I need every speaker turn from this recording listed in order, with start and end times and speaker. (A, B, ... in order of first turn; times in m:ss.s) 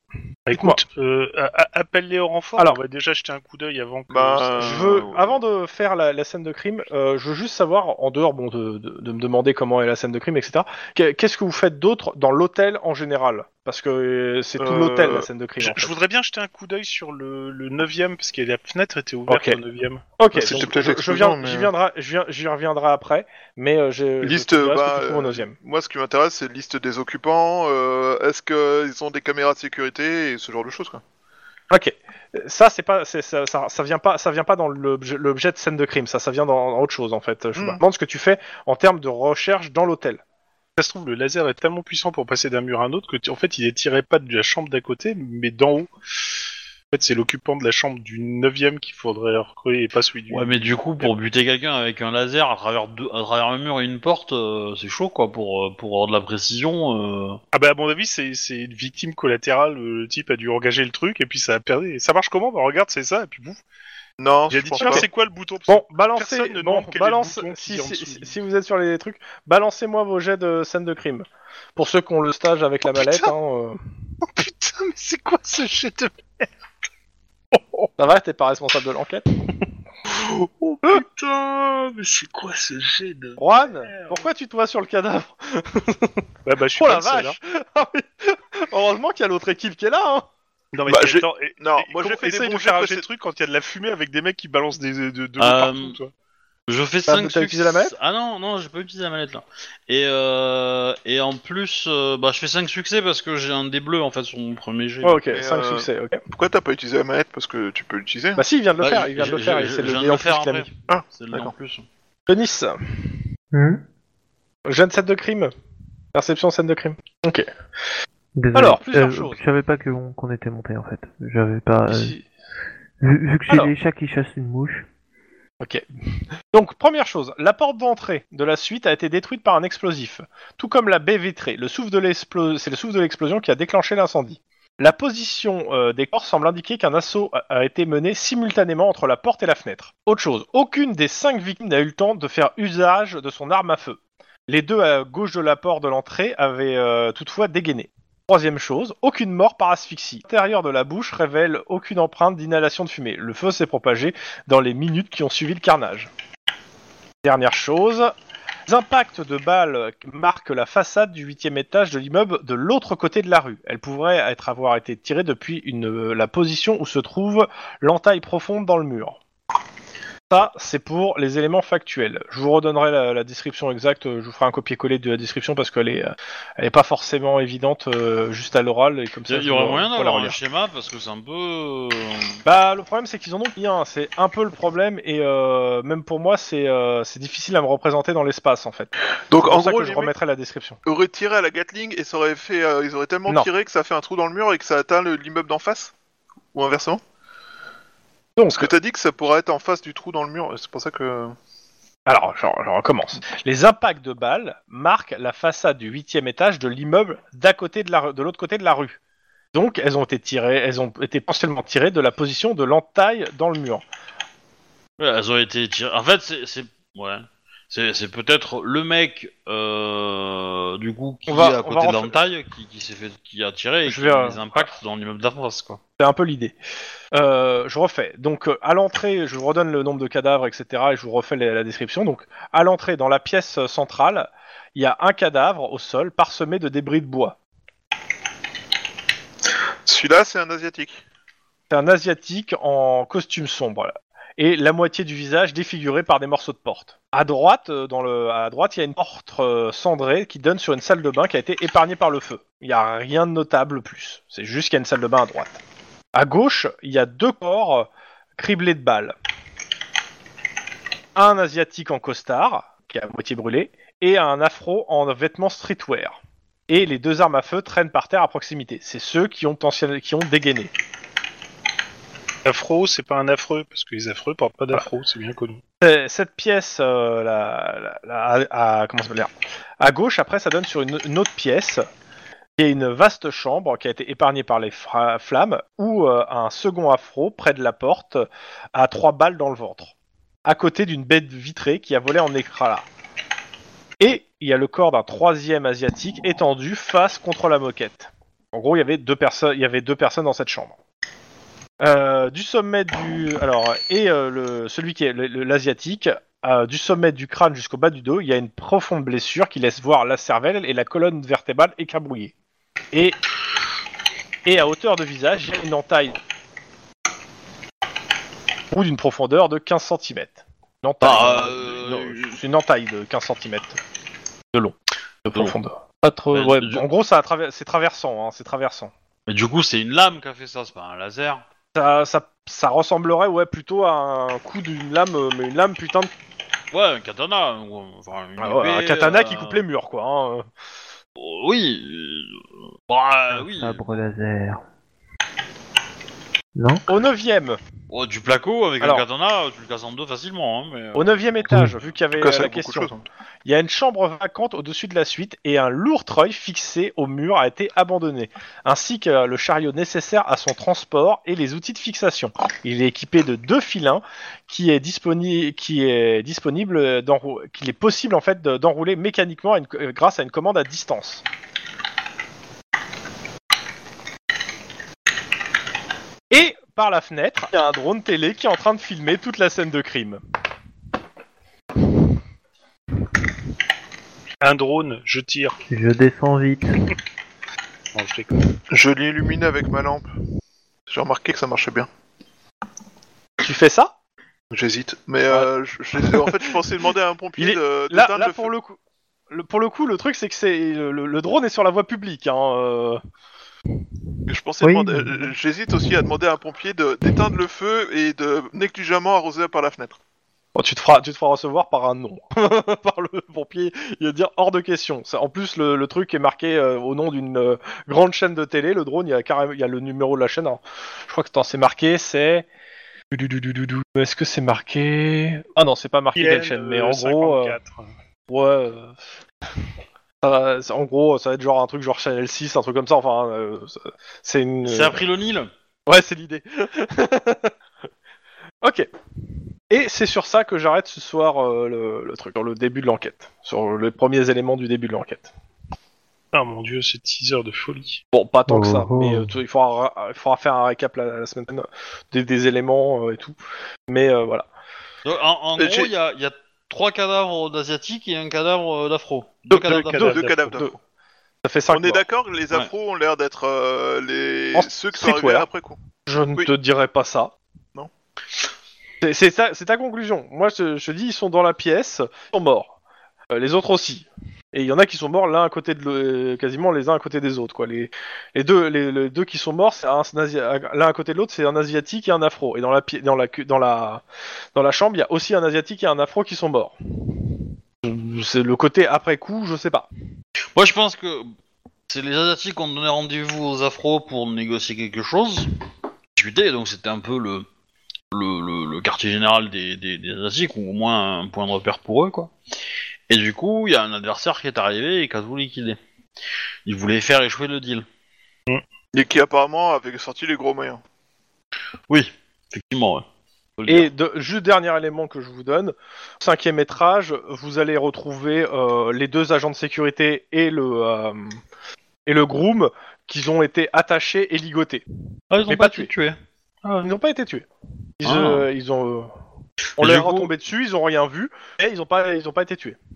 0:00.5-0:05.0 A
0:00.5-0:00.8 B
0:04.1-0:05.4 C
0:04.6-0:15.9 B
0:14.6-0:15.3 C
0:15.6-0:20.6 A
0:19.3-0:19.6 B
0:20.2-0:25.5 B
0:20.3-0:21.7 C
0:24.2-0:31.0 C
0:31.7-0:40.2 B
0:37.6-0:37.8 C
0:40.8-0:45.9 A
0:46.9-0:51.1 A
0:50.3-0:57.4 D
0:57.5-1:03.6 A
1:04.2-1:05.1 C
1:04.5-1:08.4 A
1:04.8-1:05.1 B
1:05.7-1:13.8 B
1:12.9-1:13.3 A
1:14.2-1:16.5 A
1:17.6-1:17.8 A
1:18.0-1:19.2 B
1:20.1-1:24.2 A
1:23.4-1:26.2 B
1:26.4-1:27.4 A
1:26.8-1:30.2 B
1:30.7-1:36.1 A
1:30.9-1:33.0 C
1:35.4-1:36.0 D
1:36.7-1:45.2 D
1:37.1-1:37.9 B
1:45.0-1:46.2 B
1:45.3-1:48.4 C
1:48.4-1:50.7 B
1:48.8-1:51.8 D
1:50.9-1:51.5 C
1:52.3-1:53.2 B
1:53.5-1:53.8 E
1:54.6-1:55.5 B
1:56.1-1:57.5 B
1:58.4-2:02.2 E
1:58.5-1:59.4 B
2:01.9-2:02.2 B
2:03.0-2:04.8 E
2:03.5-2:03.7 B
2:06.5-2:36.1 B
2:37.2-2:38.1 B
2:38.7-2:49.2 B
2:50.3-3:00.4 B
2:59.3-3:02.4 D
3:02.4-3:10.8 B
3:09.3-3:10.1 C
3:10.8-3:15.9 C
3:16.5-3:17.0 C
3:18.4-3:18.7 B
3:18.6-3:21.4 C
3:22.0-3:29.0 B
3:29.5-3:33.8 B
3:35.0-3:45.8 D
3:41.3-3:42.2 B
3:43.8-3:44.7 B
3:46.0-3:46.6 B
3:47.1-3:57.4 B
3:59.8-4:01.0 C
4:01.7-4:15.6 B
4:16.1-4:19.1 B
4:21.2-4:26.2 B
4:26.7-4:30.7 B
4:32.4-4:35.6 A
4:35.8-4:41.9 B
4:42.6-4:49.9 B
4:50.4-4:52.9 B
4:54.0-5:00.8 B
5:01.8-5:12.3 B
5:12.9-5:13.2 B
5:14.4-5:16.2 B
5:18.7-5:23.8 B
5:21.0-5:22.4 D
5:24.5-5:28.9 B
5:26.3-5:26.8 D
5:29.3-5:31.4 D
5:31.7-5:36.1 B
5:36.7-5:39.6 D
5:38.4-5:40.5 B
5:41.2-5:44.1 D
5:43.3-5:44.6 E
5:46.5-5:46.9 E
5:46.9-5:47.6 B
5:47.9-5:51.9 D
5:50.9-5:52.9 B
5:52.2-5:53.0 C
5:53.4-6:11.2 B
6:16.3-6:20.2 B
6:24.4-6:25.6 A
6:25.7-6:26.8 E
6:27.9-6:28.5 A
6:28.7-6:30.1 C
6:30.9-6:31.9 C
6:33.4-6:33.9 B
6:34.5-6:38.5 C
6:36.0-6:36.3 B
6:37.4-6:38.8 B
6:39.3-6:43.0 B
6:44.3-6:50.0 C
6:44.6-6:45.2 E
6:50.5-7:02.5 B
7:03.1-7:07.6 B
7:06.1-7:07.9 A
7:08.3-7:09.0 B
7:10.2-7:15.0 B
7:14.6-7:15.5 D
7:15.9-7:17.5 B
7:18.6-7:18.9 B
7:19.7-7:25.3 B
7:26.3-7:28.0 A
7:28.1-7:34.4 B
7:28.5-7:29.3 E
7:35.0-7:40.2 D
7:35.6-7:35.9 C
7:39.5-7:40.6 A
7:39.9-7:40.8 C
7:40.2-7:40.8 B
7:41.4-7:42.0 B
7:41.7-7:45.8 C
7:44.5-7:45.5 B
7:46.0-7:47.3 B
7:49.0-7:52.7 B
7:53.3-8:04.0 B
8:04.5-8:06.7 B
8:07.8-8:09.9 B
8:10.5-8:11.3 D
8:11.9-8:15.5 D
8:16.2-8:17.5 D
8:18.1-8:22.3 D
8:23.1-8:25.8 D
8:26.6-8:27.8 D
8:28.9-8:30.8 C
8:31.9-8:33.0 D
8:33.6-8:33.9 D
8:33.7-8:41.4 B
8:42.0-8:44.8 B
8:45.3-8:46.9 D
8:45.4-8:45.9 B
8:46.8-8:47.5 B
8:48.0-8:49.1 B
8:48.0-8:48.5 D
8:49.8-8:50.3 D
8:49.8-8:52.8 B